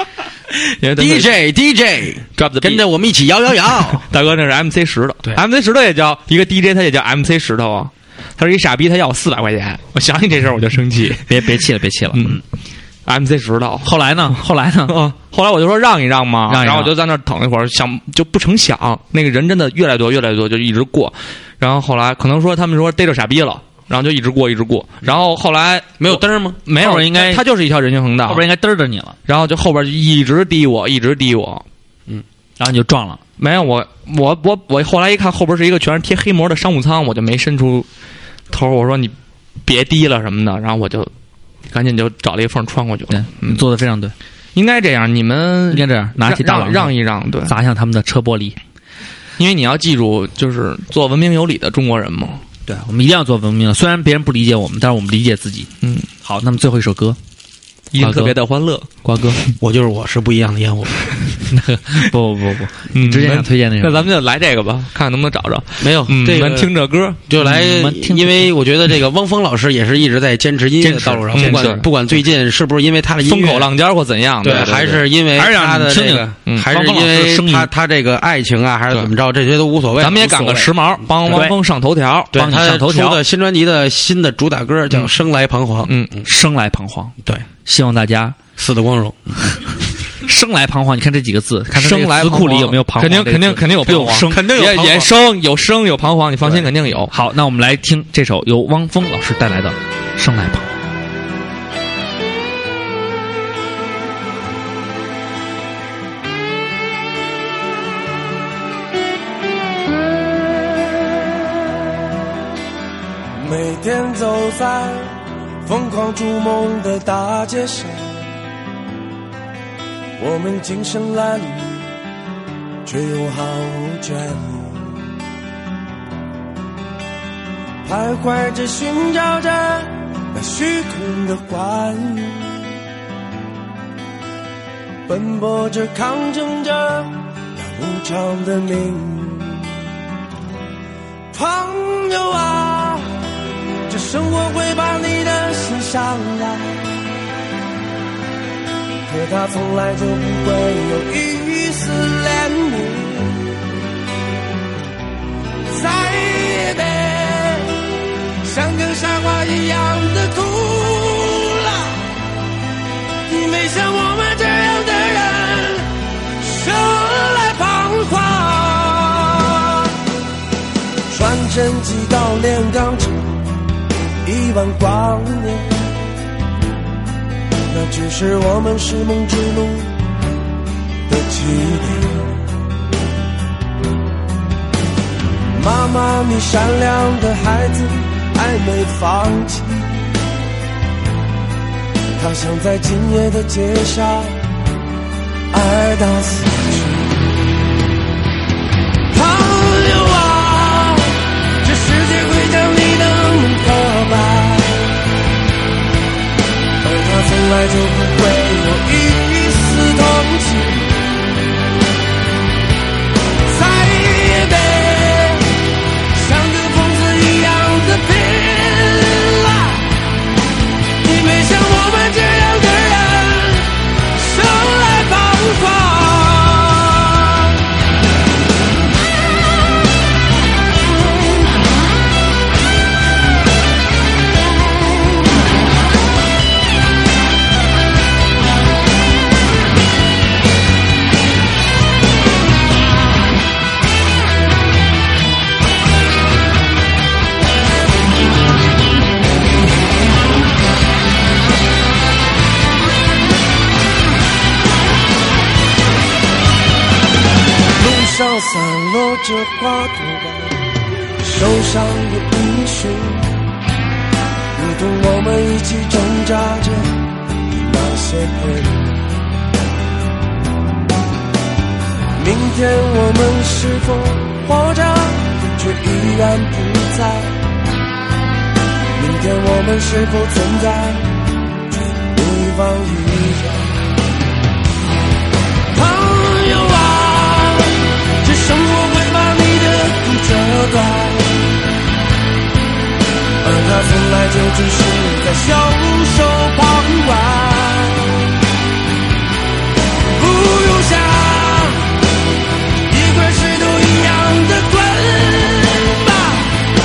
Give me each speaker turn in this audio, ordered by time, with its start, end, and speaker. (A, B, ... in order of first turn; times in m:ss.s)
0:00.6-0:01.3 A
0:01.0-0:04.0 B
0:02.4-0:02.8 A
0:04.0-0:11.3 A
0:11.3-0:12.4 C
0:12.1-0:12.4 A
0:13.1-0:28.4 A
0:13.8-0:15.0 C
0:16.5-0:16.9 C
0:26.0-0:26.6 B
0:26.8-0:27.4 C
0:28.3-0:29.2 C
0:29.3-0:31.6 A
0:32.6-0:33.2 C
0:33.4-0:37.9 A
0:38.5-0:39.1 A
0:39.6-0:41.1 A
0:41.7-0:43.6 A
0:43.1-0:44.1 C
0:44.6-0:47.6 A
0:45.7-0:46.9 C
0:47.4-0:48.6 C
0:49.4-0:52.4 A
0:52.7-0:55.7 C
0:55.8-0:56.1 A
0:56.2-0:57.2 C
0:57.9-0:58.9 A
0:58.0-0:58.4 C
0:59.0-0:59.4 C
0:59.6-1:01.0 B
1:01.5-1:04.1 C
1:02.9-1:07.2 A
1:05.8-1:06.7 B
1:07.3-1:13.7 B
1:07.4-1:08.5 C
1:10.8-1:11.8 C
1:11.3-1:11.9 A
1:13.2-1:15.0 A
1:14.4-1:20.4 B
1:15.4-1:17.7 C
1:20.0-1:22.4 A
1:20.2-1:20.7 C
1:21.2-1:21.6 C
1:22.3-1:25.9 B
1:22.4-1:23.2 C
1:25.9-1:26.2 A
1:26.2-1:27.1 C
1:27.6-1:28.4 C
1:28.6-1:29.6 B
1:30.2-1:34.4 C
1:31.8-1:37.1 A
1:34.2-1:35.2 B
1:37.1-1:40.7 C
1:53.4-1:58.4 D
2:00.2-2:01.9 D
2:02.8-2:05.0 D
2:07.8-2:12.7 D
2:15.1-2:19.8 D
2:21.3-2:23.3 D
2:23.9-2:27.0 D
2:29.1-2:33.6 D
2:35.7-2:37.9 D
2:38.4-2:42.1 D
2:43.3-2:49.9 D
2:51.1-2:53.4 D
2:54.2-2:56.1 D
2:57.7-3:00.0 D
3:01.1-3:02.5 D
3:05.5-3:10.2 D
3:12.2-3:14.5 D
3:15.5-3:17.4 D
3:19.1-3:25.0 D
3:26.8-3:31.0 D
3:33.4-3:39.9 D
3:41.0-3:47.5 D
4:17.8-4:20.6 D
4:21.2-4:23.5 D
4:24.6-4:29.0 D
4:32.2-4:37.4 D
4:39.0-4:43.8 D
4:45.7-4:51.5 D
4:53.4-4:58.3 D
5:00.1-5:01.9 D
5:02.9-5:06.6 D